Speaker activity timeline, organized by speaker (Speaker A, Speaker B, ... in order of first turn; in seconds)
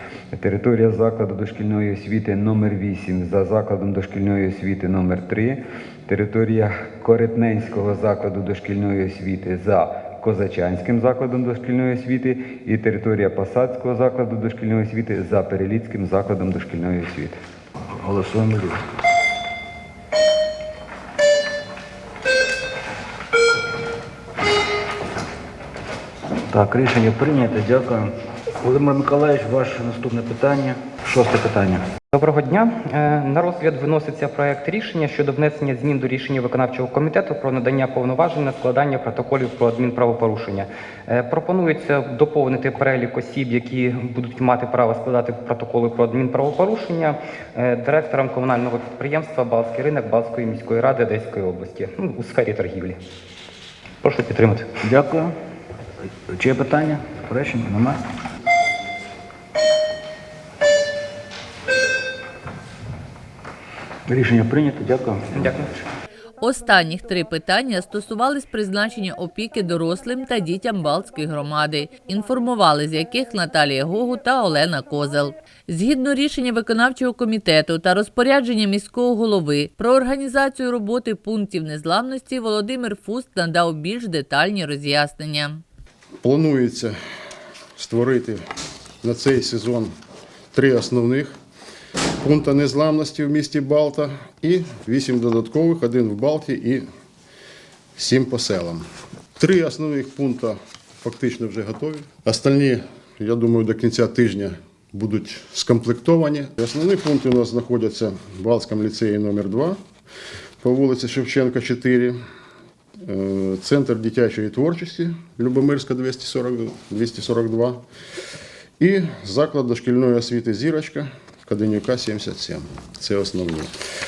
Speaker A: 0.3-17.4
Speaker B: 18.0-18.8, 26.5-28.1, 28.6-31.8, 54.8-55.3, 56.3-58.0, 64.1-65.3
Speaker C: 32.1-53.0, 54.0-54.7, 65.3-65.7
Speaker D: 66.4-85.6
Speaker E: 86.2-86.9, 87.8-88.4, 89.0-89.9, 90.5-91.3, 92.2-96.8, 98.0-98.8, 99.4-109.8, 110.6-112.2, 113.0-117.8, 118.8-123.7